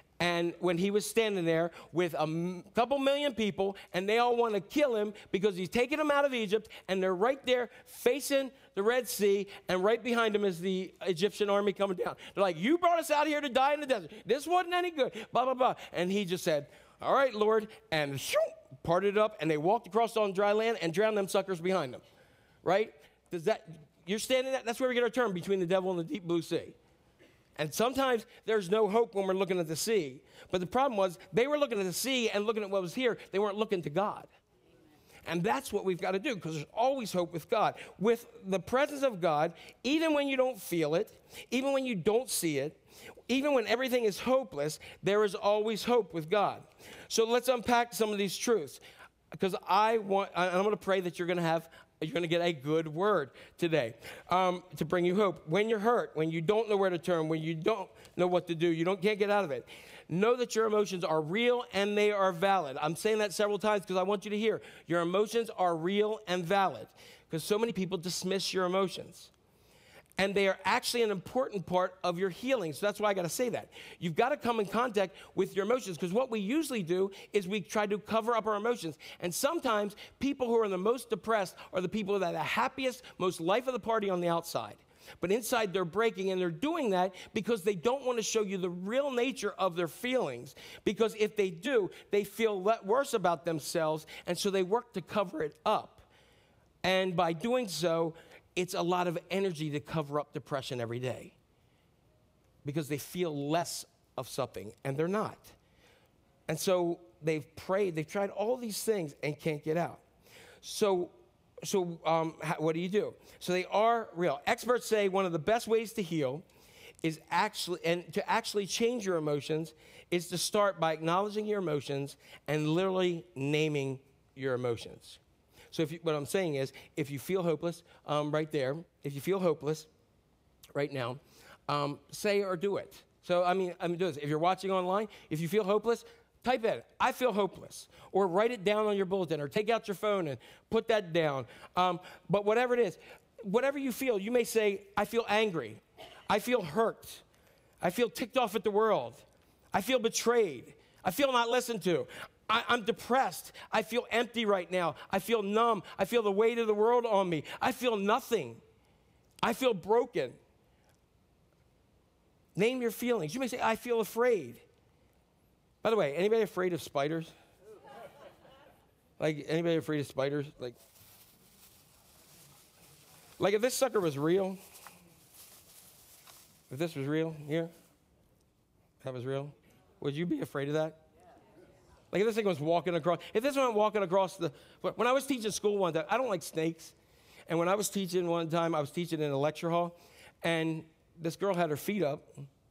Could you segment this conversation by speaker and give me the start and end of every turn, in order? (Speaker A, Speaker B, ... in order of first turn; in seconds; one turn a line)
Speaker A: 0.2-22.0
Speaker A: 22.6-26.8
Speaker A: 27.6-34.3
Speaker A: 35.2-69.3
Speaker A: 70.2-96.1
Speaker A: 96.8-101.3
Speaker A: 102.6-105.6
Speaker A: 106.5-110.0
Speaker A: 110.6-116.5
Speaker A: 117.0-125.2
Speaker A: 125.7-129.9
Speaker A: 130.7-147.2
Speaker A: 147.8-158.6
Speaker A: 159.4-160.4
Speaker A: 162.6-164.6
Speaker A: 165.8-167.3
Speaker A: 169.2-170.8
Speaker A: 173.4-174.6
Speaker A: 176.7-177.7
Speaker A: 179.0-181.0
Speaker A: 182.1-186.9
Speaker A: 187.5-192.5